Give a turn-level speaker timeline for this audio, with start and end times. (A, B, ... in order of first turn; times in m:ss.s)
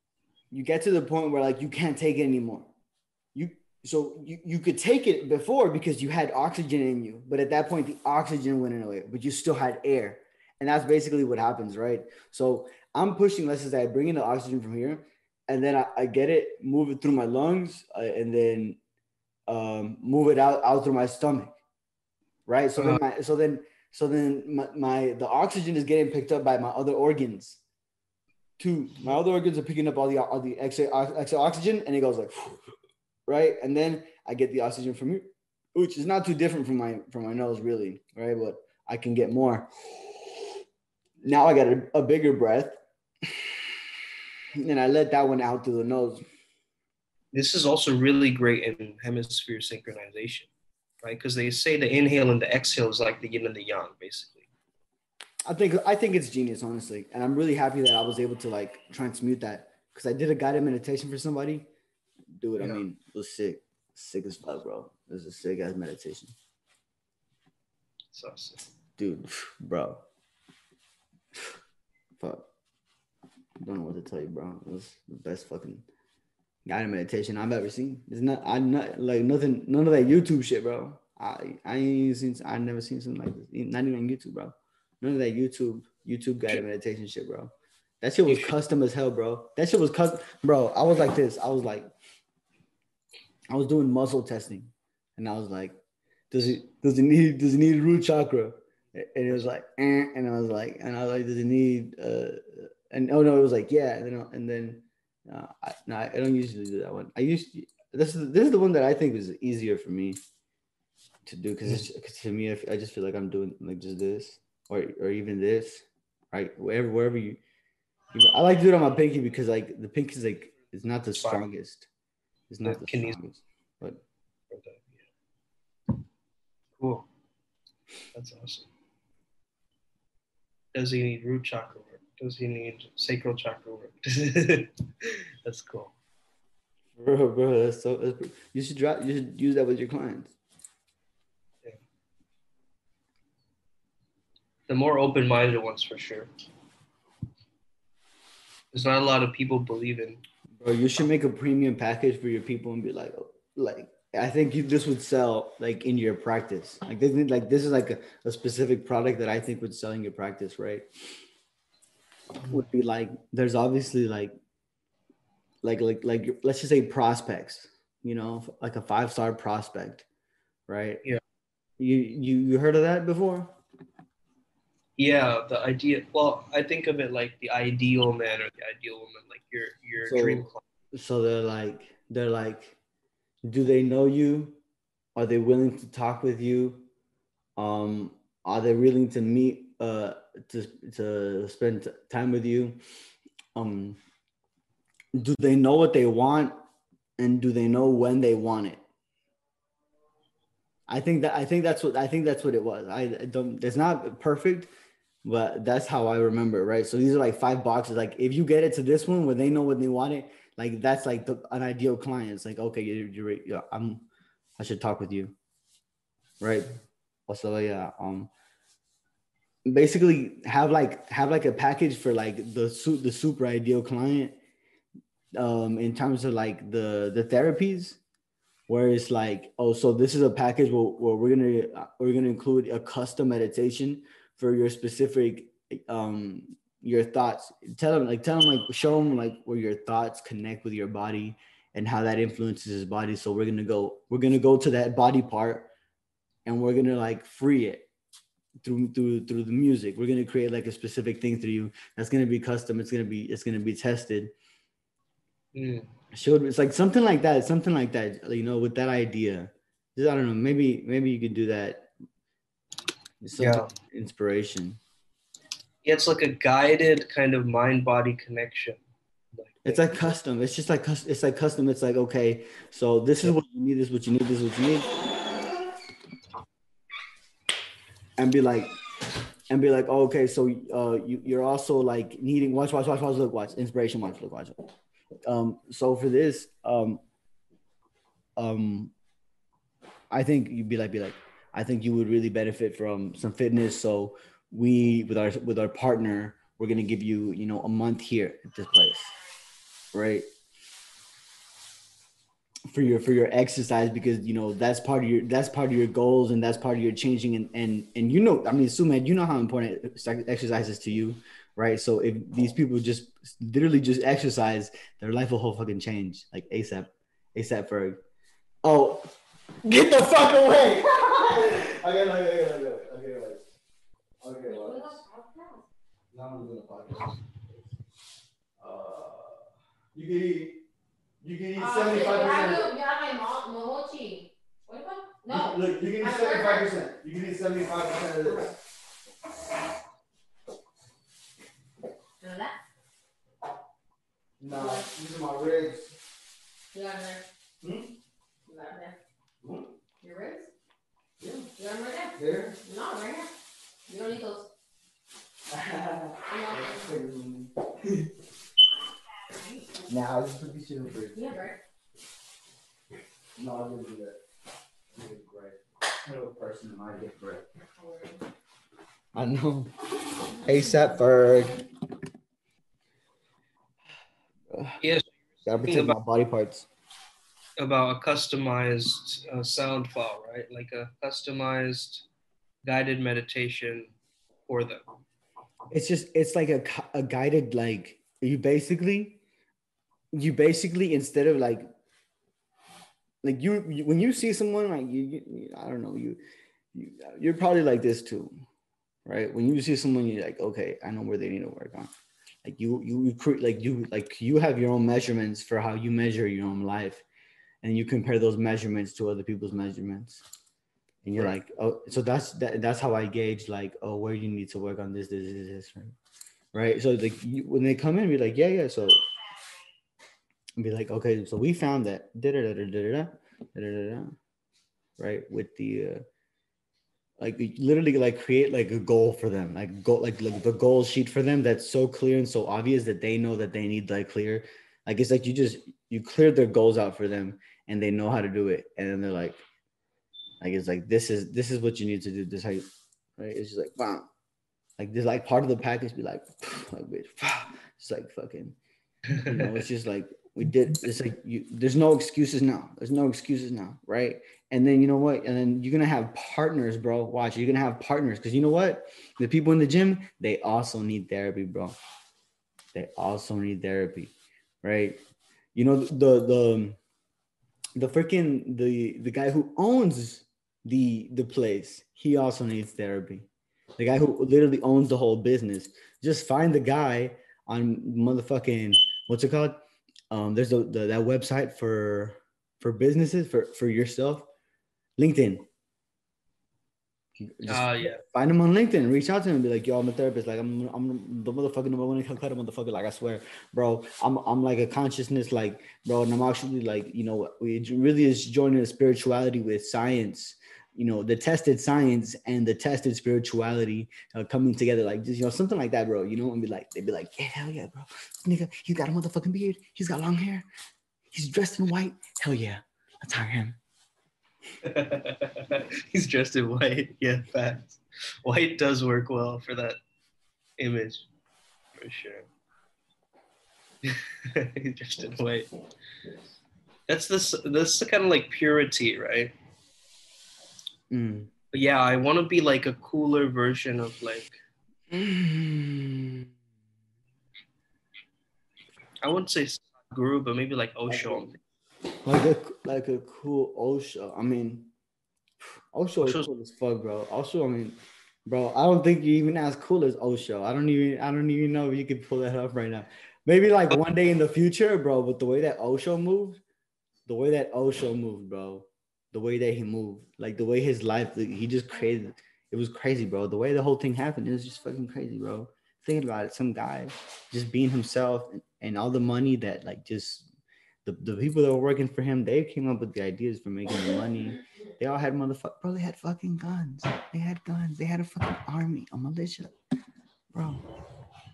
0:00.5-0:02.7 A
0:03.3-0:18.8 A
0:19.5-0:21.5 A
0:22.5-0:27.6 A
0:28.6-0:32.7 A
0:33.3-0:40.2 A
0:41.2-0:43.7 A
0:44.5-0:46.3 A
0:47.3-0:50.5 B
0:51.0-0:54.5 B
0:55.4-1:01.7 A
1:02.4-1:06.4 A
1:08.1-1:08.6 B
1:09.0-1:10.0 A
1:12.2-1:12.4 A
1:13.6-1:15.9 A
1:16.7-1:31.9 A
1:28.3-1:28.5 B
1:33.5-1:35.8 A
1:36.3-1:50.2 A
1:51.3-1:57.4 A
1:58.1-2:01.9 A
2:01.2-2:01.4 B
2:02.5-2:04.0 A
2:02.6-2:03.2 B
2:04.5-2:05.0 B
2:06.8-2:07.1 B
2:08.1-2:08.7 B
2:10.7-2:15.9 B
2:17.0-2:20.4 A
2:24.7-2:26.3 B
2:28.7-2:30.2 B
2:30.5-2:40.9 A
2:42.5-2:44.3 A
2:45.6-2:50.1 A
2:50.7-2:51.0 A
2:51.8-2:53.5 A
2:55.0-3:00.6 B
3:00.0-3:02.8 A
3:03.5-3:04.6 A
3:05.2-3:06.9 A
3:07.6-3:12.8 A
3:13.6-3:14.0 A
3:15.1-3:16.6 A
3:17.2-3:18.8 A
3:20.9-3:24.7 A
3:25.2-3:34.1 A
3:34.6-3:35.4 A
3:36.4-3:36.7 A
3:37.3-3:38.3 A
3:39.7-3:44.4 A
3:45.4-3:48.0 A
3:48.7-4:05.7 A
4:06.4-4:07.9 A
4:08.6-4:14.3 A
4:15.6-4:15.9 B
4:16.1-4:21.9 A
4:23.2-4:24.8 A
4:23.4-4:23.7 B
4:25.8-4:28.8 B
4:29.3-4:30.1 B
4:29.6-4:34.9 A
4:38.2-4:38.8 A
4:39.5-4:44.7 A
4:45.3-4:47.0 A
4:48.4-4:48.9 A
4:50.1-4:59.2 A
4:59.9-5:00.3 A
5:02.7-5:18.0 A
5:18.6-5:19.1 A
5:19.6-5:23.4 A
5:24.2-5:25.0 A
5:24.5-5:25.6 C
5:26.1-5:27.7 A
5:28.6-5:30.6 A
5:31.2-5:32.7 A
5:31.6-5:36.7 C
5:35.3-5:38.6 A
5:42.2-5:42.6 C
5:44.4-5:46.0 A
5:44.5-5:44.9 C
5:46.7-5:47.2 C
5:47.6-5:47.9 A
5:48.5-5:49.0 C
5:49.4-5:49.7 A
5:50.0-5:50.5 C
5:51.2-5:51.5 A
5:51.6-5:53.3 C
5:52.2-5:52.6 A
5:53.9-5:54.5 C
5:55.5-5:58.1 A
5:56.2-5:56.9 C
5:59.3-5:59.8 C
5:59.9-6:01.4 A
6:01.2-6:01.6 C
6:03.4-6:04.2 A
6:04.9-6:07.4 A
6:07.6-6:08.2 C
6:09.1-6:09.7 A
6:10.3-6:11.6 A
6:14.5-6:14.8 A
6:14.8-6:16.0 B
6:15.4-6:16.7 A
6:17.6-6:22.1 B
6:22.6-6:23.9 B
6:24.5-6:24.8 B
6:25.7-6:29.2 A
6:30.1-6:31.7 A
6:33.2-6:36.2 A
6:36.7-6:38.4 A
6:39.0-6:41.9 A
6:42.4-6:47.0 A
6:47.6-6:50.2 A
6:51.0-6:56.0 A
6:56.5-6:59.0 A
7:00.6-7:04.2 A
7:05.0-7:06.0 A
7:07.2-7:19.4 A
7:20.4-7:22.6 A
7:23.2-7:24.1 A
7:24.8-7:28.6 A
7:29.2-7:41.8 A
7:42.7-7:45.0 A
7:45.6-7:46.8 A
7:47.8-8:04.3 A
8:05.0-8:05.4 A
8:07.2-8:30.5 A
8:07.5-8:08.0 B
8:31.1-8:33.6 A
8:34.6-8:39.8 B
8:40.6-8:41.1 B
8:41.8-8:42.3 B
8:43.8-8:45.5 B
8:46.9-8:49.3 B
8:50.9-8:51.3 A
8:51.5-8:54.4 B
8:54.9-8:56.3 A
8:59.0-9:01.4 B
9:00.9-9:01.3 A
9:02.0-9:04.7 A
9:05.4-9:16.4 A
9:06.0-9:06.3 B
9:17.1-9:30.3 A
9:30.8-9:39.5 A
9:40.3-9:40.7 A